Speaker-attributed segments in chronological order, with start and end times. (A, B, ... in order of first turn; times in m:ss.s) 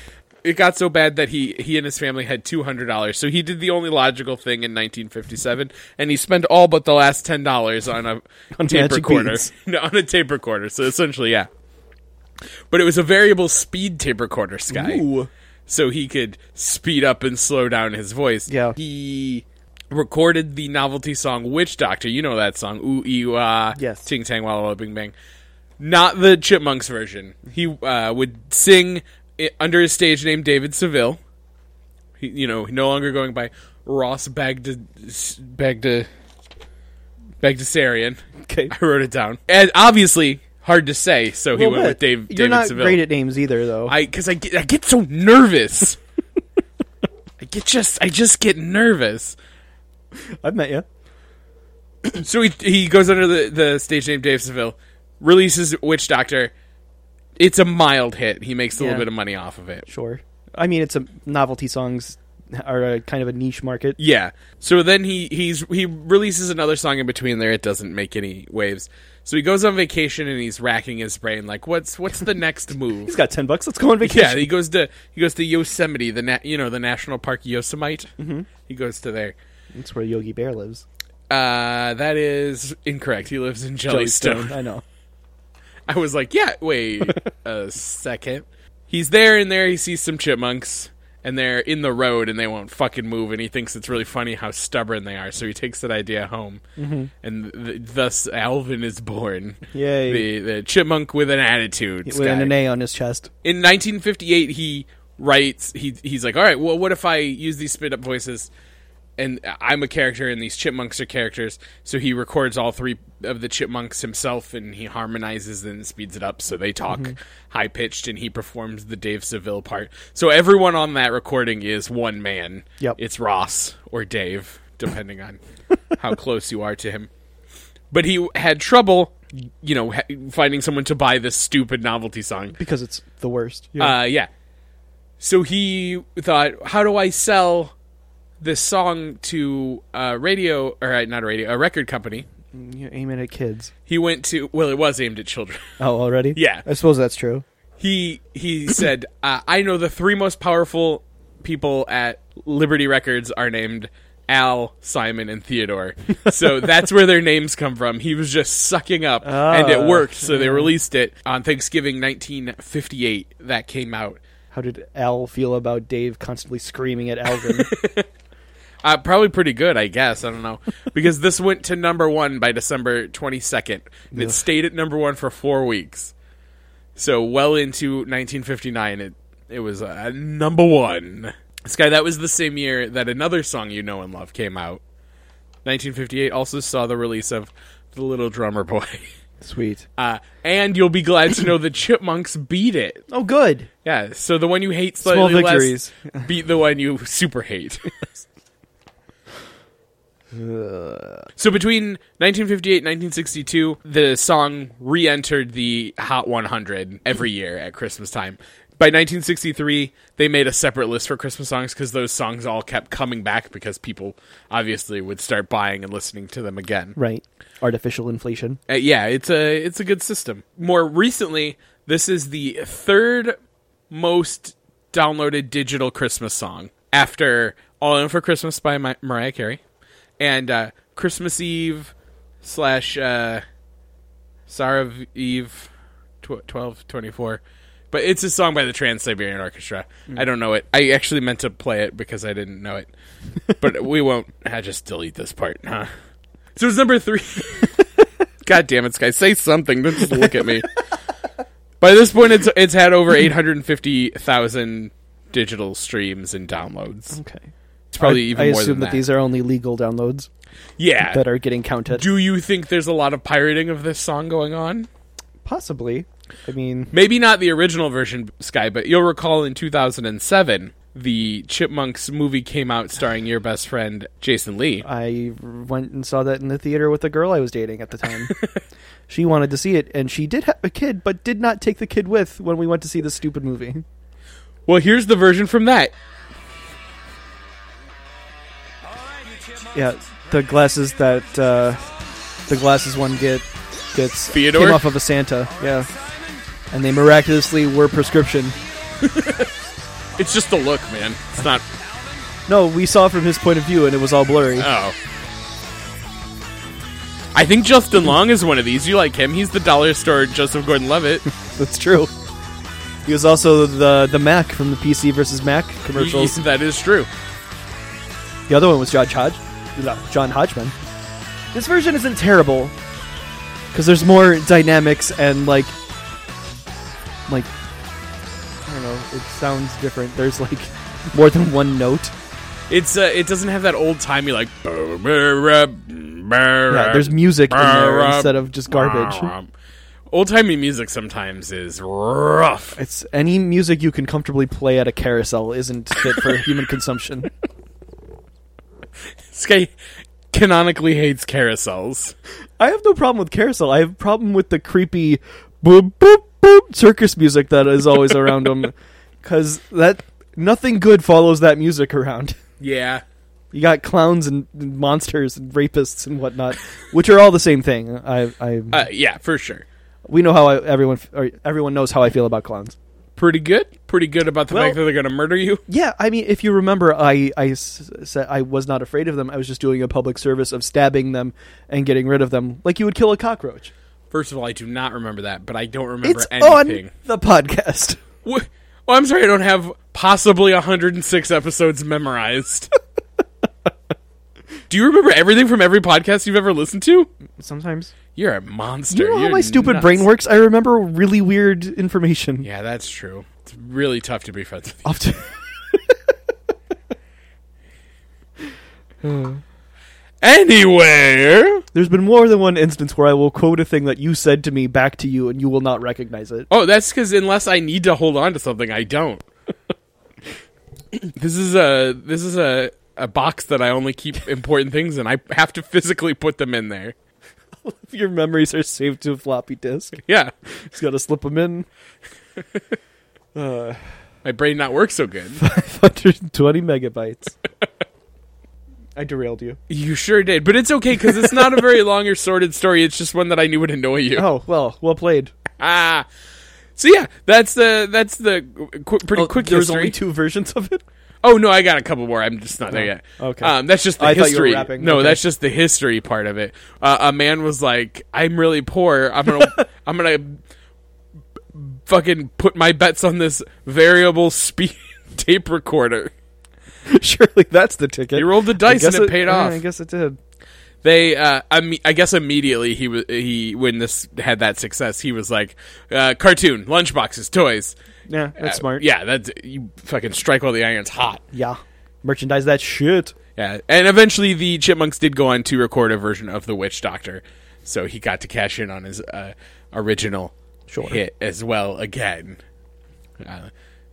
0:00.4-0:11.5 A
0:08.5-0:09.5 B
0:12.7-0:15.0 A
0:14.7-0:15.3 B
0:15.7-0:25.1 A
0:18.5-0:18.8 B
0:23.7-0:24.1 B
0:25.8-0:31.2 A
0:32.2-0:36.1 A
0:37.4-0:43.0 A
0:38.5-0:38.7 B
0:41.5-0:43.9 B
0:43.8-0:46.0 A
0:47.4-0:49.4 A
0:50.4-0:50.8 B
0:52.2-0:56.5 A
0:57.4-0:59.9 A
0:58.8-0:59.1 B
0:59.9-1:04.0 B
1:04.0-1:13.1 A
1:13.0-1:14.5 B
1:14.0-1:18.1 A
1:18.2-1:18.5 B
1:18.6-1:19.3 A
1:19.7-1:20.8 B
1:21.3-1:24.6 A
1:23.9-1:24.8 B
1:25.9-1:36.6 A
1:36.8-1:37.1 B
1:37.2-1:42.5 A
1:39.7-1:40.3 B
1:42.0-1:43.3 B
1:43.4-1:48.5 A
1:49.2-2:05.4 A
1:56.9-1:57.1 B
2:05.9-2:07.1 A
2:07.9-2:12.6 A
2:12.6-2:14.0 B
2:13.8-2:14.3 A
2:15.2-2:17.7 A
2:18.4-2:22.3 A
2:22.5-2:23.7 B
2:23.9-2:25.7 A
2:25.8-2:27.4 B
2:26.3-2:26.6 A
2:27.8-2:44.2 A
2:39.2-2:40.8 B
2:44.5-2:47.7 B
2:47.4-2:48.0 A
2:48.8-2:56.1 A
2:54.1-2:54.4 B
2:57.0-3:04.8 A
3:05.6-3:09.1 A
3:09.4-3:09.8 B
3:10.0-3:13.0 A
3:13.1-3:13.7 B
3:13.8-3:17.9 A
3:15.0-3:16.3 B
3:20.3-3:21.3 B
3:21.4-3:37.0 A
3:37.0-3:38.6 B
3:38.7-3:43.3 A
3:43.9-3:49.6 A
3:50.2-3:53.4 A
3:54.5-3:55.7 A
3:56.2-4:02.9 A
4:03.5-4:05.9 A
4:06.5-4:07.8 A
4:08.4-4:10.8 A
4:11.8-4:17.2 A
4:17.1-4:17.4 B
4:17.9-4:19.0 A
4:18.0-4:20.3 B
4:20.8-4:21.2 A
4:21.1-4:22.1 B
4:21.9-4:24.9 A
4:25.4-4:26.9 B
4:26.9-4:34.8 A
4:34.8-4:38.3 B
4:38.3-4:38.6 A
4:39.1-4:43.8 B
4:44.7-4:45.9 A
4:49.7-4:51.8 B
4:52.5-4:55.9 B
4:54.3-4:54.9 A
4:56.7-4:58.6 B
4:59.0-4:59.5 A
5:00.2-5:01.7 A
5:02.5-5:04.7 B
5:04.6-5:05.0 A
5:07.3-5:11.3 A
5:11.4-5:12.1 B
5:13.0-5:16.4 B
5:15.9-5:17.1 A
5:18.5-5:20.7 B
5:21.5-5:22.7 B
5:23.7-5:25.7 B
5:28.6-5:32.1 B
5:32.7-5:39.5 A
5:36.7-5:39.3 B
5:40.1-5:42.8 A
5:42.8-5:47.3 B
5:49.3-5:49.7 A
5:50.3-5:52.1 A
5:52.6-6:02.4 B
6:02.6-6:03.0 A
6:03.5-6:08.9 B
6:08.7-6:09.6 A
6:10.1-6:12.8 B
6:13.2-6:15.6 A
6:14.5-6:14.8 B
6:15.7-6:23.7 B
6:24.1-6:26.9 A
6:26.0-6:28.0 B
6:28.2-6:32.7 A
6:34.7-6:37.1 A
6:37.4-6:37.9 B
6:38.1-6:40.1 A
6:38.9-6:42.5 B
6:42.4-6:44.9 A
6:44.8-6:46.0 B
6:49.0-6:49.4 B
6:50.2-6:51.6 A
6:51.7-6:56.5 B
6:56.5-6:59.2 A
7:01.0-7:06.9 A
7:07.6-7:10.0 B
7:10.0-7:10.3 A
7:10.6-7:11.7 B
7:13.3-7:14.0 B
7:14.2-7:15.4 A
7:15.4-7:17.4 B
7:19.0-7:19.6 B
7:19.7-7:24.3 A
7:24.2-7:25.3 B
7:25.6-7:26.1 A
7:26.8-7:30.0 A
7:29.1-7:30.8 B
7:31.2-7:40.4 A
7:32.7-7:35.2 B
7:41.5-7:46.1 A
7:46.9-7:50.2 B
7:48.1-7:49.6 A
7:50.8-7:57.8 A
7:58.1-7:58.8 B
7:58.4-8:01.2 A
8:01.3-8:03.1 B
8:03.4-8:12.4 A
8:10.7-8:11.0 B
8:13.2-8:13.5 A